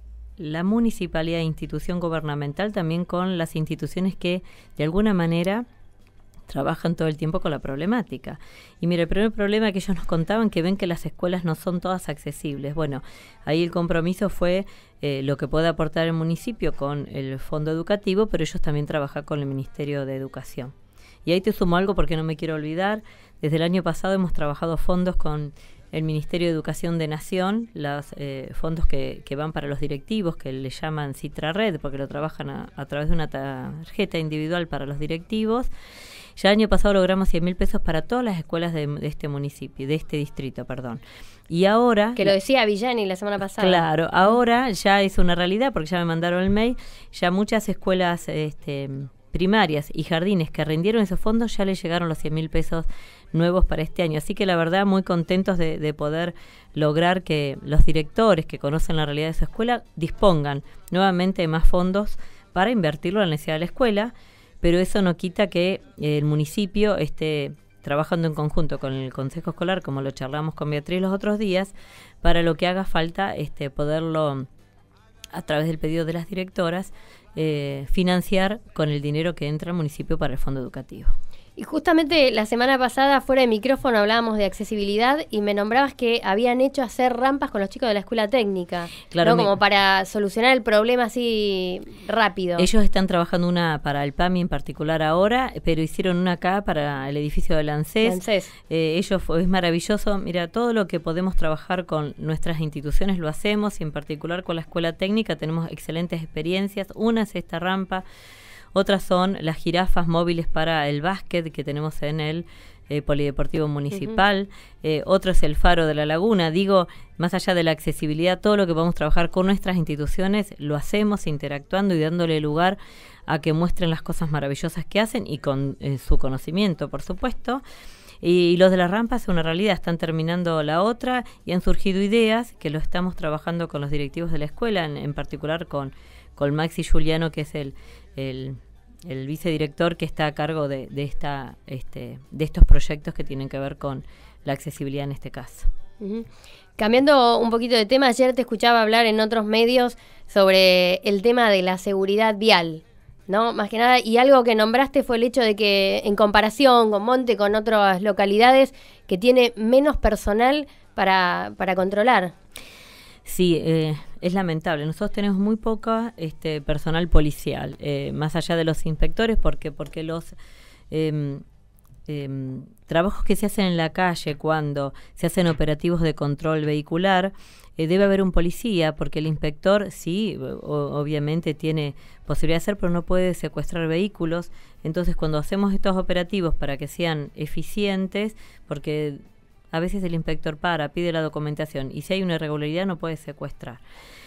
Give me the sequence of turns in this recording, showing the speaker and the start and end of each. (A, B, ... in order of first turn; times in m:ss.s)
0:00.4-0:05.6 A
0:06.5-0:20.7 A
0:21.2-0:35.7 A
0:36.4-0:42.3 A
0:42.2-0:43.9 B
0:43.6-1:14.4 A
1:15.3-1:21.2 A
1:21.6-1:32.7 B
1:29.1-1:29.6 A
1:32.6-1:48.0 A
1:38.0-1:38.5 B
1:48.7-2:07.6 A
2:08.2-2:25.7 A
2:26.0-2:42.3 B
2:43.2-2:50.4 A
2:50.9-2:51.4 A
2:52.1-3:09.2 A
3:09.7-3:13.8 A